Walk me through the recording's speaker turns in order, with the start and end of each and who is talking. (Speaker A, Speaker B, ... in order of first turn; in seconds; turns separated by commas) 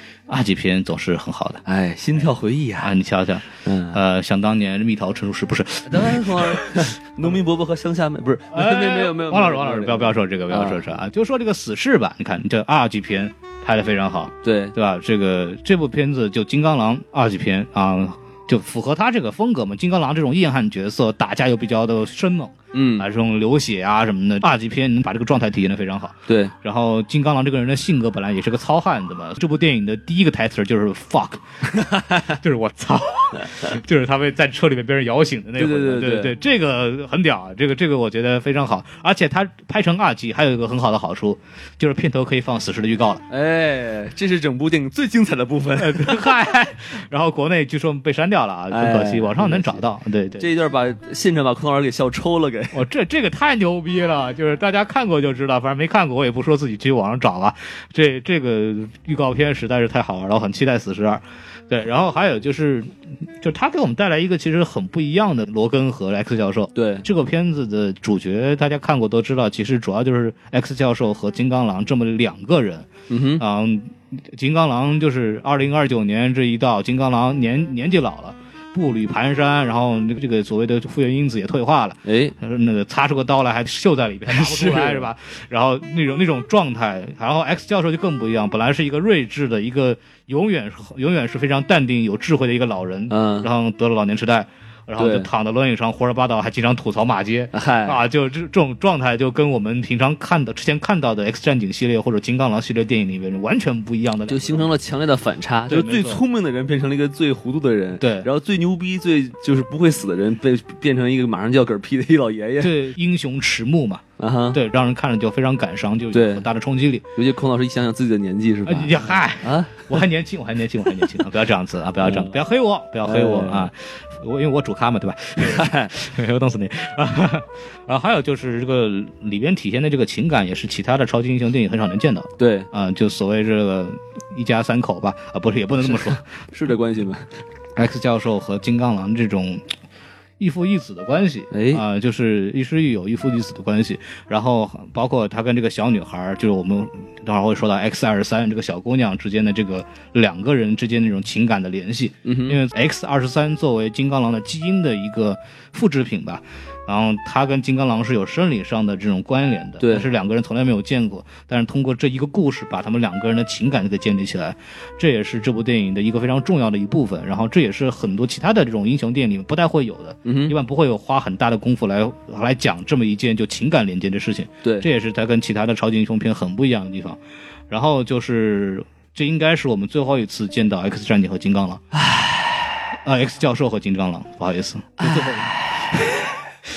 Speaker A: 0.3-1.6, Speaker B: 1.7-3.0, Speaker A: 2.8-6.7, Speaker B: 3.6-4.0, Speaker B: 5.9-10.8, Speaker A: 8.5-31.4, Speaker B: 14.4-14.7, Speaker B: 22.7-23.1, Speaker B: 26.3-26.5, Speaker B: 31.8-32.3, Speaker A: 32.0-43.2, Speaker B: 35.6-36.3, Speaker B: 43.3-46.4, Speaker A: 45.8-50.5, Speaker B: 48.7-49.8, Speaker B: 50.4-52.8, Speaker A: 52.7-72.9, Speaker B: 66.8-67.0, Speaker B: 73.1-73.4, Speaker A: 73.4-104.7, Speaker B: 82.0-82.4, Speaker B: 84.3-85.1, Speaker B: 93.1-93.5, Speaker B: 95.0-95.3, Speaker B: 97.5-98.0, Speaker B: 104.3-112.7, Speaker A: 105.7-106.2, Speaker A: 108.0-108.3, Speaker A: 112.6-117.0, Speaker B: 114.2-114.6, Speaker B: 116.1-116.5, Speaker B: 117.2-119.9, Speaker A: 118.7-136.2, Speaker B: 122.0-122.4, Speaker B: 123.0-123.7, Speaker B: 125.4-125.9, Speaker B: 132.4-132.7, Speaker B: 136.5-137.3, Speaker A: 137.8-139.7, Speaker A: 140.4-177.2, Speaker B: 141.5-141.8, Speaker B: 152.2-152.6, Speaker B: 159.8-160.1, Speaker B: 170.2-170.5, Speaker A: 177.7-181.8, Speaker B: 181.9-182.6, Speaker A: 183.0-186.3, Speaker B: 185.0-185.6